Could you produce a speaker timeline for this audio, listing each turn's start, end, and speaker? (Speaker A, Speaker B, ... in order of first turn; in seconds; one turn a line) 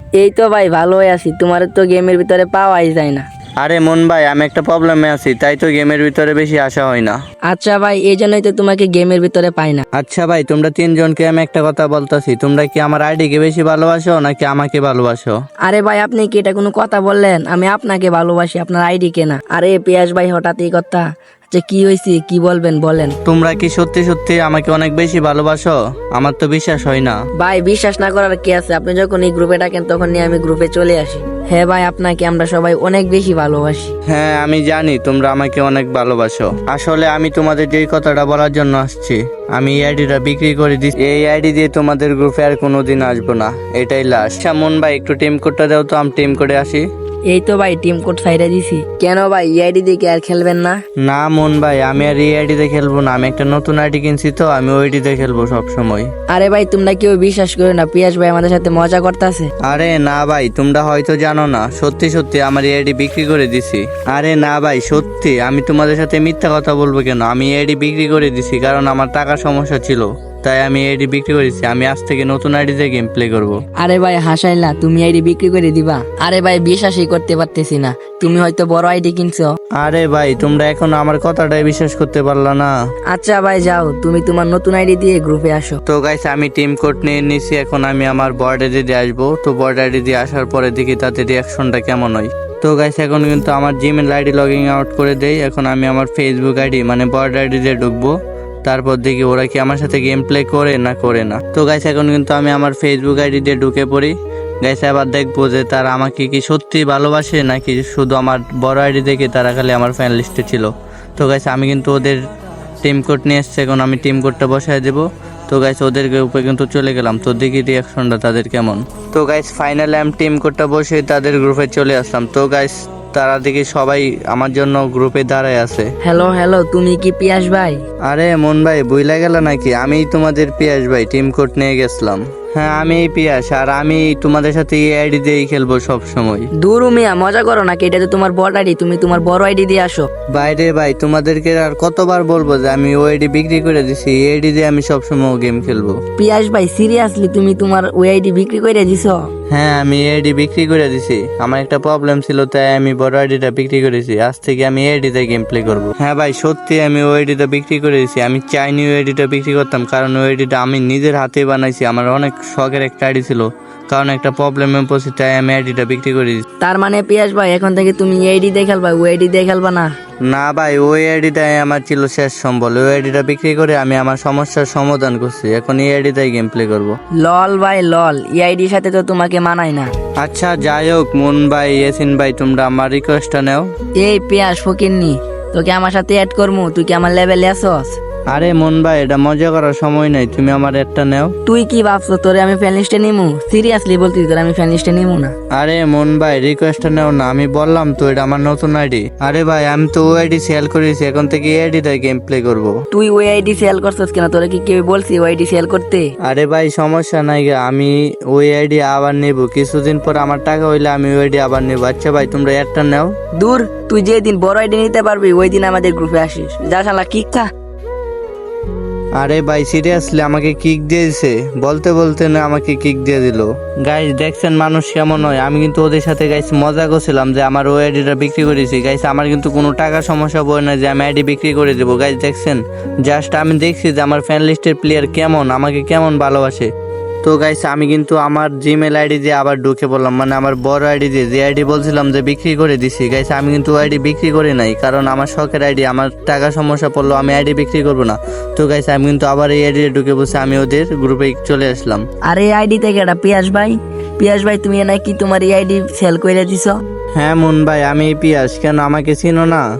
Speaker A: 0.2-3.2
Speaker B: 3.6-7.2
Speaker A: 7.5-9.8
Speaker B: 9.9-15.3
Speaker A: 15.6-23.1
Speaker B: 23.2-27.2
Speaker A: 27.4-33.9
Speaker B: 34.1-46.8
Speaker A: 47.3-50.8
Speaker B: 51.0-56.1
Speaker A: 56.3-59.5
Speaker B: 59.6-73.6
Speaker A: 73.8-79.5
Speaker B: 79.8-82.7
Speaker A: 83.1-85.8
Speaker B: 85.9-98.1
Speaker B: 98.7-112.2
Speaker B: 112.8-125.9
Speaker A: 126.0-127.8
Speaker B: 128.1-136.5
Speaker A: 136.6-140.1
Speaker B: 140.3-146.0
Speaker A: 146.2-149.2
Speaker B: 149.5-166.4
Speaker A: 166.6-169.9
Speaker B: 170.2-177.0
Speaker A: 177.2-179.9
Speaker B: 180.2-183.7
Speaker A: 184.0-188.0
Speaker B: 188.3-191.3
Speaker A: 191.5-195.3
Speaker B: 195.5-202.7
Speaker A: 202.9-206.1
Speaker B: 206.2-213.1
Speaker A: 213.4-217.5
Speaker B: 219.2-236.7
Speaker B: 237.2-252.0
Speaker A: 252.2-256.8
Speaker B: 257.2-259.6